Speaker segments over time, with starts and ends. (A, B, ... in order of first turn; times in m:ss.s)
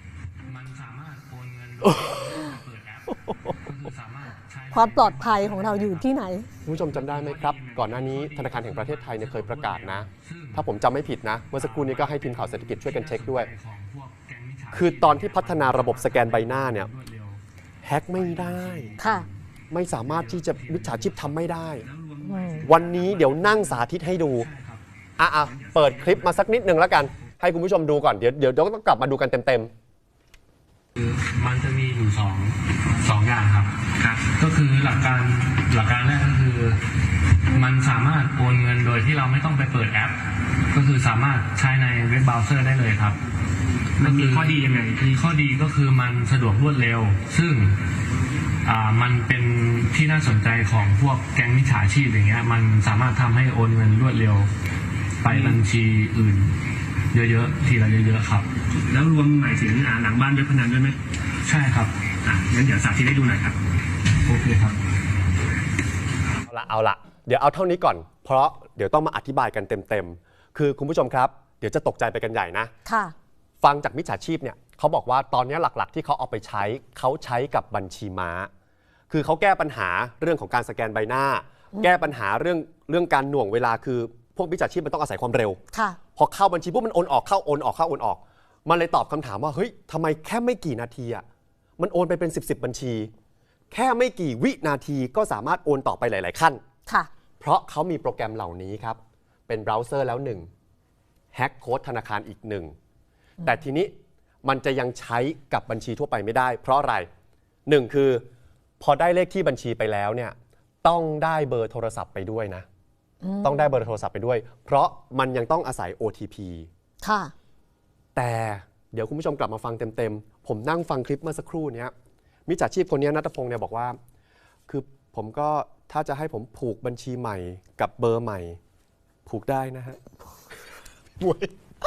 0:00.4-0:06.1 A
0:04.7-0:06.5 B
0:06.6-0:13.5 C
0:06.7-0:10.7 A
0:11.5-0:17.4 A
0:14.7-0:16.9 C
0:17.8-0:18.9 C
0:18.1-0:19.4 A
0:19.0-0:19.2 B
0:19.7-0:21.8 C
0:19.9-0:21.6 A
0:21.9-0:23.5 D
0:22.2-0:22.6 B
0:22.6-0:24.5 C
0:24.3-0:24.8 A
0:25.2-0:29.7 C
0:25.5-0:26.4 D
0:31.0-0:36.8 A
0:34.0-0:34.2 D
0:37.4-0:43.2 A
0:44.0-0:45.0 D
0:44.0-0:47.8 A
0:48.6-0:54.5 A
0:55.2-0:56.6 A
0:55.3-0:55.6 D
0:57.1-0:58.5 A
0:58.8-1:01.0 D
1:01.4-1:01.9 A
1:02.2-1:03.6 D
1:04.2-1:04.8 A
1:06.5-1:12.7 C
1:12.8-1:13.1 B
1:13.6-1:18.5 C
1:19.1-1:25.6 C
1:25.7-1:26.0 B
1:26.2-1:31.2 C
1:31.8-1:33.1 C
1:33.7-1:36.6 C
1:37.4-1:40.5 C
1:41.3-1:42.7 C
1:43.4-1:43.9 C
1:44.4-1:47.1 C
1:47.7-1:48.2 C
1:48.8-1:52.6 C
1:53.2-1:53.6 B
1:53.4-1:56.7 C
1:57.0-1:57.3 B
1:58.1-2:01.9 C
2:02.5-2:04.0 C
2:04.7-2:08.6 C
2:09.2-2:10.0 C
2:11.2-2:11.5 C